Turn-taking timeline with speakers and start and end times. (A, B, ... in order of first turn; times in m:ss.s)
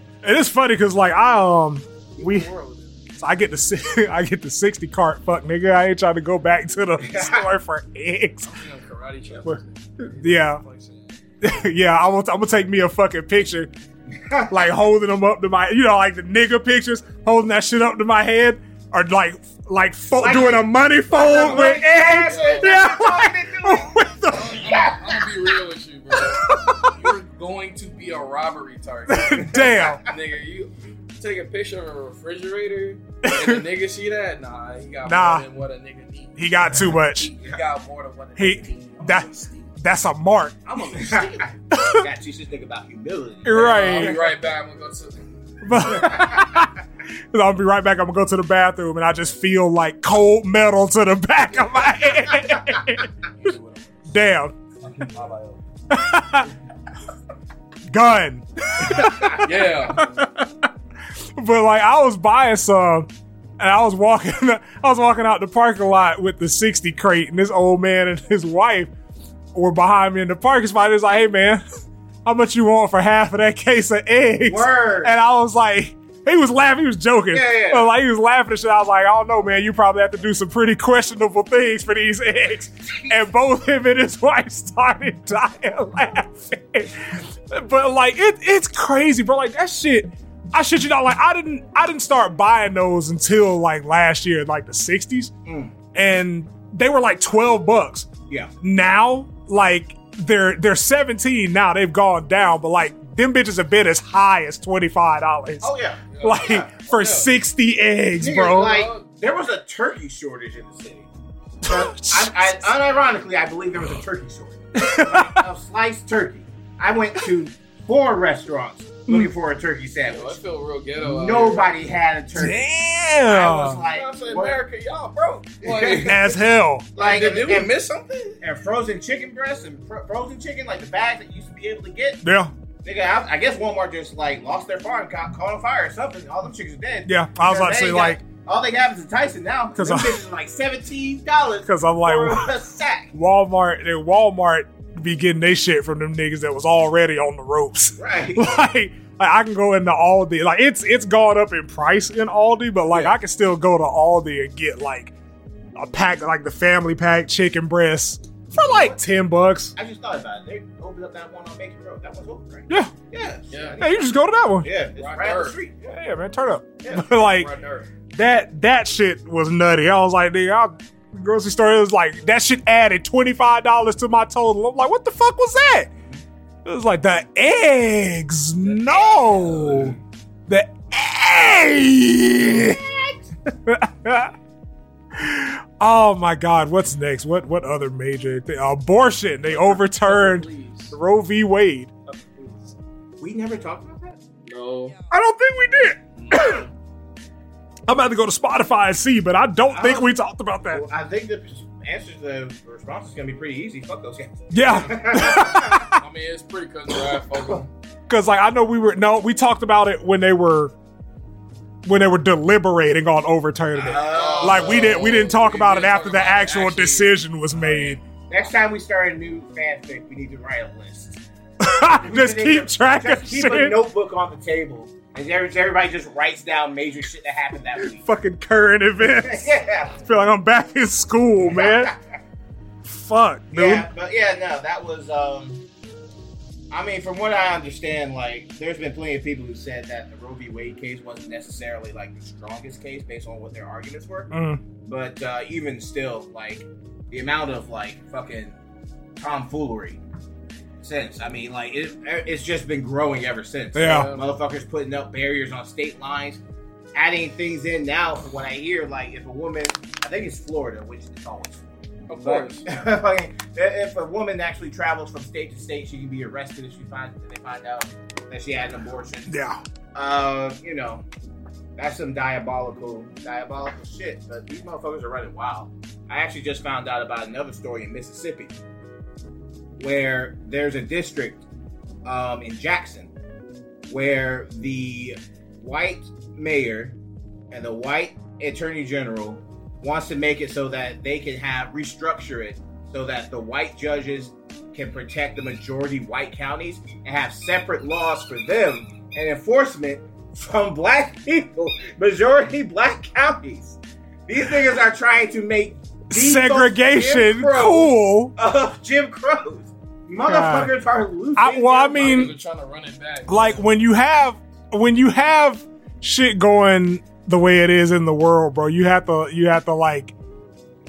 0:00.2-0:02.5 A
0:02.1-0:03.0 B
0:03.2-0:08.5 A
0:07.0-0:07.4 C
0:08.4-0:11.2 B
0:09.4-0:10.6 A
0:11.4-0:13.7 A
0:14.1-0:14.6 C
0:14.5-0:24.8 A
0:20.2-0:24.0 C
0:21.3-0:22.8 B
0:24.3-0:39.7 B
0:24.5-0:25.2 C
0:26.2-0:27.1 A
0:29.1-0:30.0 A
0:29.4-0:30.1 C
0:33.2-0:33.6 A
0:35.0-0:35.5 A
0:36.4-0:37.3 A
0:38.4-0:40.6 A
0:40.6-0:41.5 B
0:41.0-0:44.3 C
0:41.7-0:42.1 A
0:43.4-0:44.2 A
0:43.5-0:46.1 B
0:45.6-0:46.7 A
0:45.9-0:46.5 C
0:47.3-0:53.5 A
0:53.4-0:54.2 B
0:54.1-0:54.5 A
0:54.8-0:55.6 B
0:55.9-0:56.5 A
0:57.9-1:00.7 A
0:59.0-1:00.1 B
1:01.4-1:08.9 A
1:09.5-1:11.6 A
1:12.2-1:35.3 A
1:14.5-1:15.1 C
1:17.3-1:17.9 C
1:35.5-1:35.7 C
1:35.9-1:38.1 A
1:38.6-1:48.8 A
1:45.6-1:46.0 C
1:46.1-1:47.3 B
1:48.2-1:51.1 C
1:48.5-1:49.1 B
1:51.6-1:52.7 A
1:51.6-2:00.4 C
1:54.8-1:55.4 A
2:00.1-2:01.8 B
2:01.0-2:02.6 C
2:02.4-2:03.8 A
2:03.3-2:04.6 C
2:03.9-2:06.3 B
2:05.6-2:06.2 C
2:06.0-2:06.9 A
2:07.0-2:07.7 C
2:07.0-2:08.4 B
2:08.4-2:12.2 C
2:12.2-2:12.5 A
2:12.8-2:23.1 C
2:17.1-2:18.2 A
2:19.8-2:20.2 A
2:21.7-2:22.5 A
2:23.1-2:35.1 A
2:28.0-2:28.5 C
2:35.8-2:39.7 A
2:38.5-2:39.0 C
2:39.8-2:44.1 C
2:42.7-2:42.9 A
2:43.5-2:43.8 B
2:43.8-2:44.7 A
2:44.6-2:46.0 C
2:44.9-2:45.6 B
2:45.9-2:47.5 A
2:46.8-2:47.1 C
2:47.0-2:47.9 B
2:48.1-2:55.9 A
2:56.6-3:00.0 A
2:58.6-3:00.0 C
3:00.5-3:02.8 A
3:02.5-3:03.2 C
3:03.5-3:04.3 A
3:05.1-3:11.9 A
3:09.5-3:11.0 B
3:12.1-3:12.7 B
3:13.2-3:14.2 C
3:14.4-3:15.0 B
3:15.1-3:16.6 A
3:16.2-3:16.7 B
3:17.9-3:20.8 A
3:19.7-3:20.1 C
3:20.6-3:25.9 C
3:24.5-3:26.0 A
3:25.8-3:27.7 B
3:28.1-3:30.7 A
3:31.9-3:38.0 A
3:33.8-3:35.1 C
3:33.8-3:37.1 B
3:37.6-3:41.2 C
3:41.6-3:43.8 A
3:41.9-3:48.0 C
3:47.8-3:51.9 A
3:49.1-3:50.0 C
3:51.4-3:52.0 C
3:52.8-3:53.9 A
3:53.5-3:55.6 C
3:56.7-4:04.3 C
4:04.3-4:04.6 A
4:04.8-4:08.6 C
4:09.2-4:10.0 C
4:10.8-4:16.4 C
4:13.8-4:14.1 A
4:13.8-4:14.2 B
4:16.9-4:21.6 C
4:22.1-4:22.6 B
4:22.2-4:29.4 C
4:29.3-4:29.6 A
4:29.9-4:31.0 C
4:31.8-4:38.6 C
4:39.8-4:41.4 C
4:42.0-4:43.1 C
4:43.9-4:47.0 C
4:47.5-5:12.3 C
5:06.1-5:08.3 A
5:10.2-5:10.7 A
5:11.4-5:12.3 A
5:12.0-5:13.6 B
5:13.3-5:20.1 A